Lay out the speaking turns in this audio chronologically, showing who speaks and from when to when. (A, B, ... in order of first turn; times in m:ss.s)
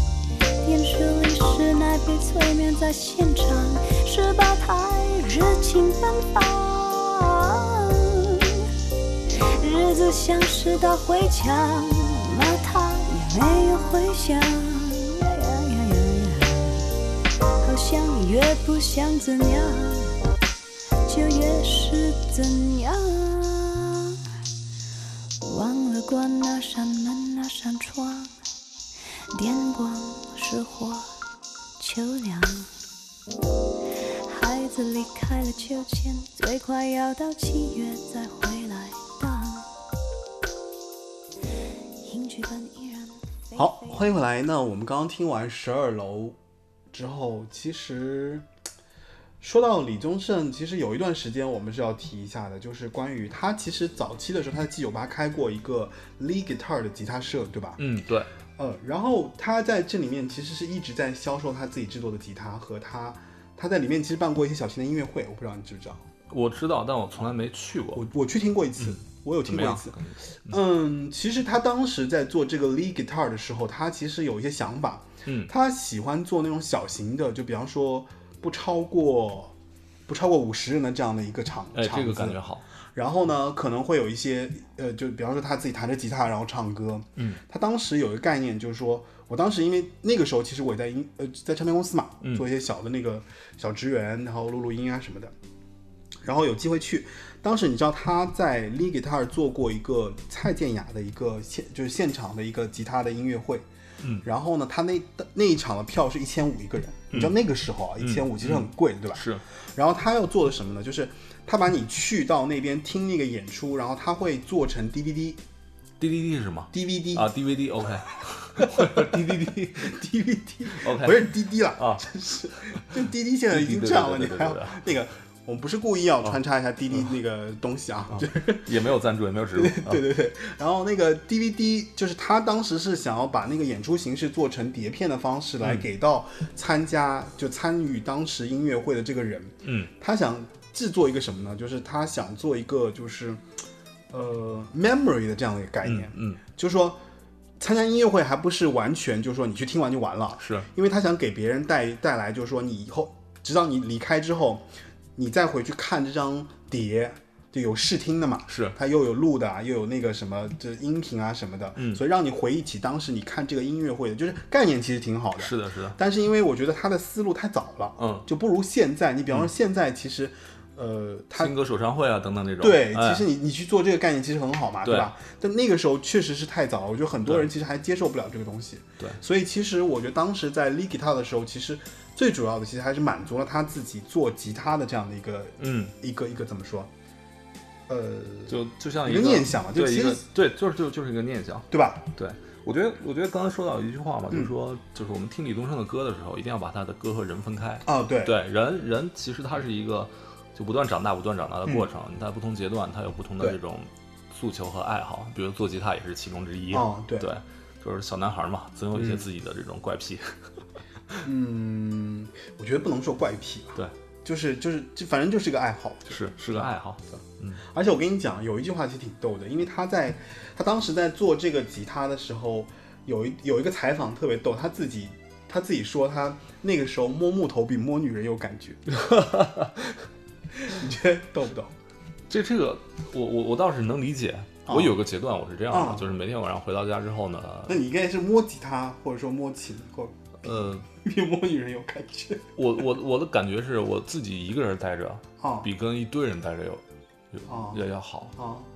0:00.7-0:07.8 A
0:09.6-0:16.8 A
0:17.6-0:20.1 A
0:21.1-0:24.0 A
0:25.5-0:28.3 A
0:29.4-0:31.0 A
0:31.8-0:32.5 A
0:34.6-0:39.6 A
0:42.1-0:43.1 A
0:43.5-0:46.4 B
0:46.9-0:48.4 B
0:49.4-0:57.8 B
0:57.8-0:58.3 C
0:58.6-1:06.0 B
1:06.3-1:08.0 C
1:07.9-1:10.0 B
1:08.8-1:10.6 C
1:10.5-1:19.5 B
1:15.2-1:15.5 C
1:20.1-1:22.4 B
1:21.7-1:22.6 C
1:22.9-1:35.3 B
1:36.2-1:43.6 B
1:44.2-1:55.4 B
1:48.0-1:49.4 C
1:56.0-1:59.9 C
1:56.7-1:57.3 B
1:58.6-2:08.7 B
2:00.7-2:02.0 C
2:03.5-2:04.8 C
2:08.1-2:10.0 C
2:09.5-2:23.4 B
2:19.6-2:19.9 C
2:24.1-2:27.0 B
2:25.8-2:26.4 C
2:27.6-2:51.5 B
2:30.4-2:30.7 C
2:38.5-2:38.8 C
2:41.8-2:42.0 C
2:45.4-2:46.0 C
2:48.0-2:48.3 C
2:51.3-2:53.2 C
2:52.6-3:06.9 B
2:54.8-2:55.1 C
3:05.6-3:05.9 C
3:07.9-3:10.2 B
3:08.5-3:30.3 C
3:11.7-3:12.1 B
3:17.8-3:18.4 B
3:26.7-3:27.3 B
3:28.9-3:29.2 B
3:31.2-3:48.9 B
3:36.1-3:37.6 C
3:48.9-3:49.8 C
3:50.6-3:51.7 B
3:52.3-3:57.8 C
3:54.6-3:55.0 B
3:55.7-3:56.1 B
3:57.7-4:02.5 B
4:00.4-4:00.8 C
4:02.6-4:08.4 C
4:05.4-4:05.7 B
4:07.5-4:08.7 B